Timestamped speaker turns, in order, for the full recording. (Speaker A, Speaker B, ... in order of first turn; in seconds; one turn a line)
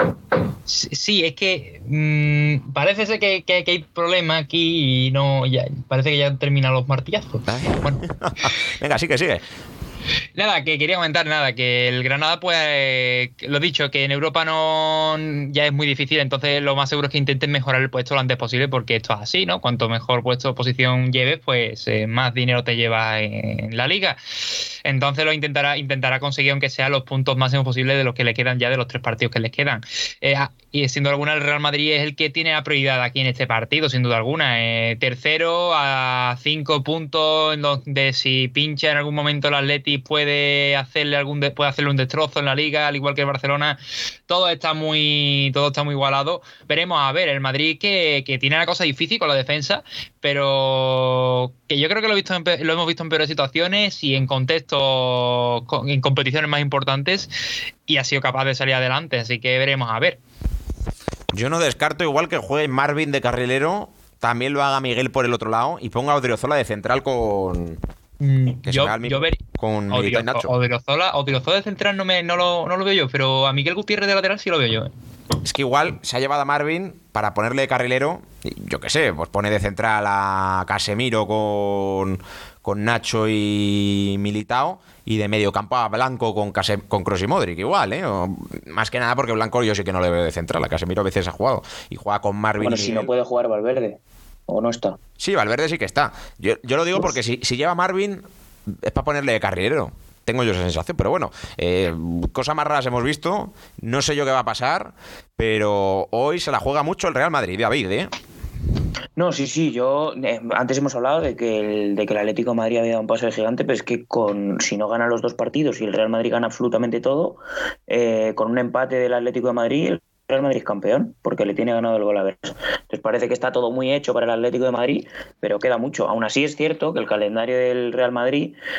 Speaker A: 0.7-8.0
Speaker B: 7.5-9.4
Speaker A: 10.3-57.3
Speaker A: 57.9-60.2
Speaker B: 61.3-67.8
Speaker A: 68.2-69.4
Speaker B: 68.6-70.5
Speaker A: 69.9-74.9
Speaker B: 75.4-93.1
Speaker C: 92.6-95.0
Speaker B: 95.2-108.1
Speaker C: 109.2-128.6